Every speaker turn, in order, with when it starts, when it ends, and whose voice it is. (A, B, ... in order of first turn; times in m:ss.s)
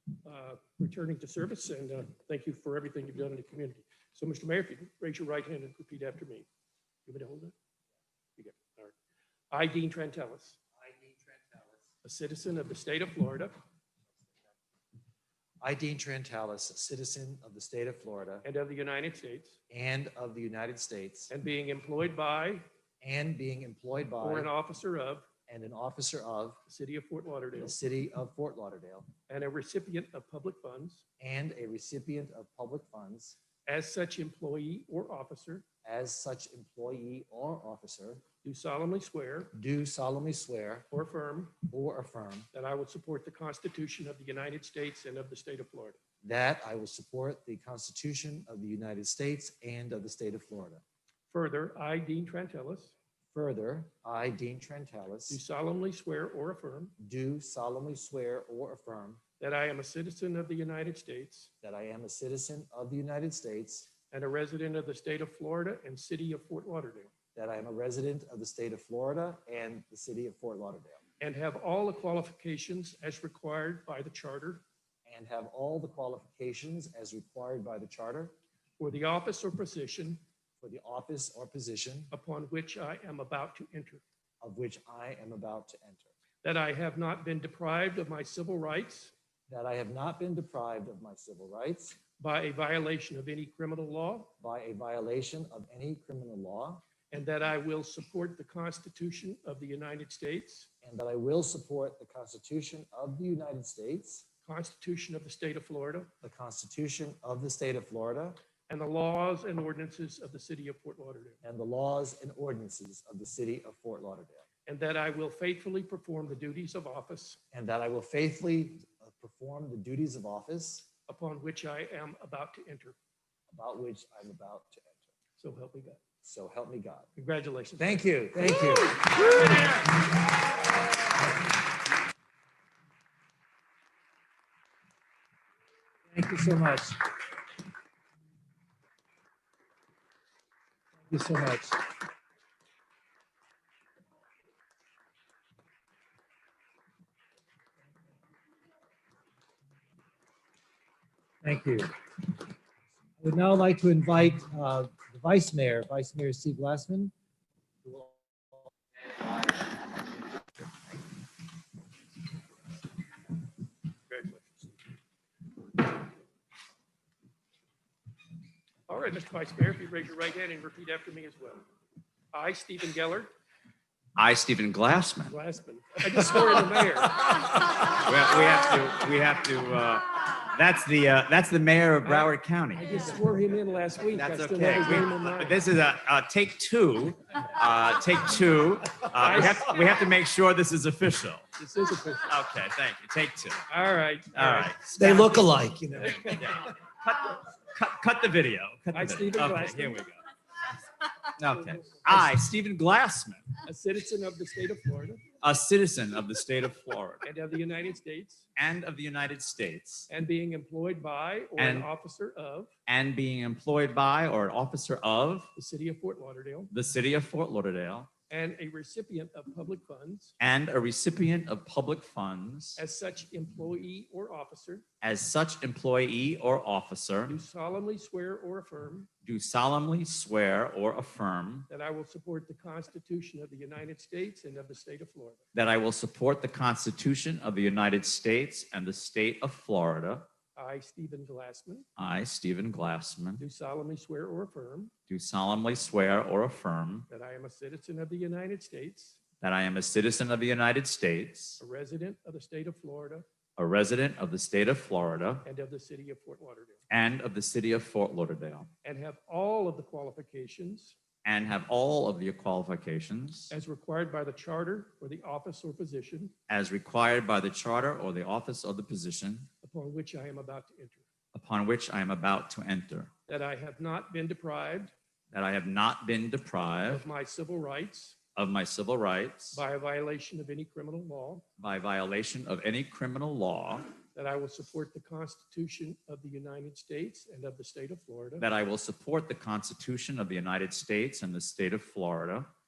0:00.2-0:06.5 A
0:07.1-0:07.5 A
0:08.4-0:08.9 A
0:09.5-0:10.6 A
0:10.8-0:11.8 B
0:12.0-0:13.5 A
0:15.6-0:18.5 B
0:18.4-0:19.6 A
0:19.7-0:21.3 B
0:21.3-0:22.6 A
0:23.0-0:24.5 B
0:24.2-0:25.3 A
0:25.5-0:26.6 B
0:26.7-0:27.8 A
0:27.6-0:29.1 B
0:29.3-0:31.0 A
0:31.2-0:33.4 B
0:33.7-0:35.6 A
0:35.8-0:38.2 B
0:38.4-0:39.5 A
0:39.5-0:40.8 B
0:40.9-0:41.6 A
0:41.7-0:42.5 B
0:42.5-0:46.0 A
0:46.2-0:50.8 B
0:51.3-0:53.0 A
0:53.3-0:55.4 B
0:55.3-0:56.9 A
0:57.0-0:59.2 B
0:59.4-1:01.5 A
1:01.6-1:03.9 B
1:04.1-1:07.1 A
1:07.3-1:11.0 B
1:11.2-1:14.6 A
1:15.0-1:18.3 B
1:18.8-1:20.2 A
1:20.6-1:22.1 B
1:22.1-1:24.0 A
1:24.4-1:26.1 B
1:26.4-1:29.1 A
1:29.5-1:32.0 B
1:32.2-1:34.3 A
1:34.4-1:36.8 B
1:37.1-1:40.7 A
1:40.8-1:44.2 B
1:44.4-1:46.1 A
1:46.2-1:48.4 B
1:48.7-1:51.4 A
1:51.4-1:54.4 B
1:54.7-1:57.4 A
1:57.5-2:00.9 B
2:01.1-2:03.0 A
2:03.5-2:05.0 B
2:05.4-2:06.0 A
2:06.2-2:07.1 B
2:07.2-2:08.0 A
2:07.8-2:09.8 B
2:16.1-2:17.0 B
2:21.1-2:21.8 B
2:31.4-2:31.9 B
2:33.2-2:37.1 B
2:37.8-2:38.6 B
2:44.1-2:44.7 A
2:48.9-2:51.6 A
2:52.3-2:53.3 A
2:54.2-2:55.4 C
2:55.3-2:57.2 A
2:58.0-3:02.8 C
3:02.0-3:05.6 A
3:04.2-3:11.4 C
3:09.2-3:09.7 A
3:11.6-3:12.3 A
3:12.3-3:13.6 C
3:13.7-3:14.7 A
3:14.3-3:15.4 C
3:15.0-3:16.4 B
3:16.0-3:16.5 A
3:16.3-3:20.2 C
3:18.9-3:20.0 A
3:21.4-3:23.4 C
3:21.4-3:22.2 A
3:23.6-3:25.2 A
3:25.4-3:27.2 C
3:27.2-3:28.5 A
3:28.6-3:30.1 C
3:30.1-3:32.7 A
3:31.6-3:31.9 C
3:32.9-3:35.5 C
3:35.6-3:36.7 A
3:36.7-3:38.1 C
3:38.3-3:40.3 A
3:40.4-3:42.8 C
3:42.8-3:44.8 A
3:45.0-3:47.4 C
3:47.3-3:49.1 A
3:49.2-3:51.7 C
3:51.7-3:55.4 A
3:55.5-4:00.3 C
4:00.5-4:01.8 A
4:02.0-4:03.4 C
4:03.4-4:04.9 A
4:05.1-4:07.1 C
4:07.1-4:09.2 A
4:09.4-4:11.6 C
4:11.6-4:13.2 A
4:13.6-4:15.4 C
4:15.4-4:16.8 A
4:16.9-4:18.7 C
4:18.8-4:21.0 A
4:21.2-4:23.5 C
4:23.5-4:26.3 A
4:26.5-4:29.5 C
4:29.6-4:31.0 A
4:31.3-4:33.1 C
4:33.3-4:34.9 A
4:35.3-4:37.0 C
4:36.8-4:38.2 A
4:38.4-4:39.6 C
4:39.5-4:41.4 A
4:41.6-4:43.9 C
4:44.1-4:48.4 A
4:48.4-4:52.5 C